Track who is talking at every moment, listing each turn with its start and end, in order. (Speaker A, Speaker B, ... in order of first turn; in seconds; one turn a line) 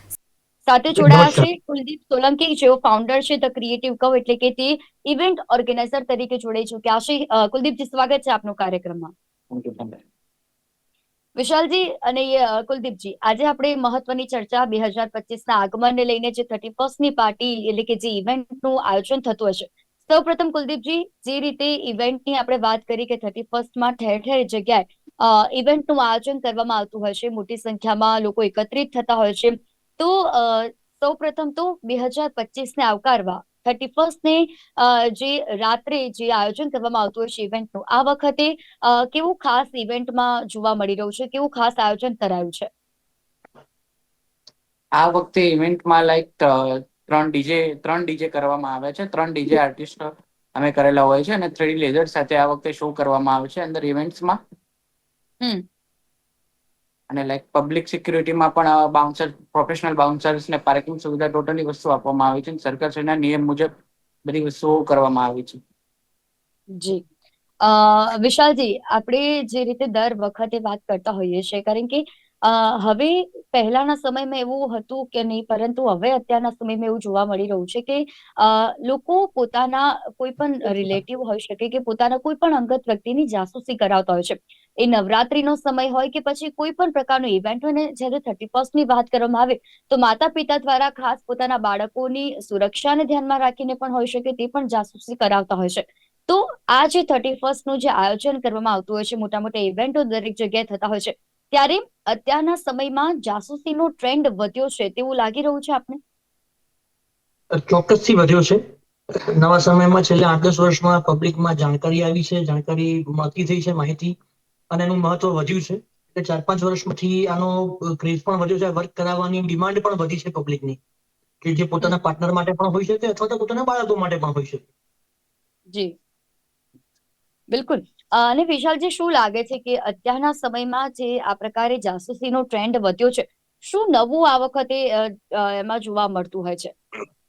Speaker A: 0.7-9.1
Speaker B: 1.0-1.5
Speaker C: 9.5-10.0
Speaker A: 11.4-42.7
Speaker C: 45.0-54.4
Speaker C: 57.1-63.7
Speaker C: 64.2-65.6
Speaker A: 66.8-67.0
Speaker A: 67.6-106.0
Speaker B: 107.5-108.6
Speaker B: 109.4-114.2
Speaker B: 114.7-120.8
Speaker B: 121.4-124.6
Speaker A: 127.5-136.7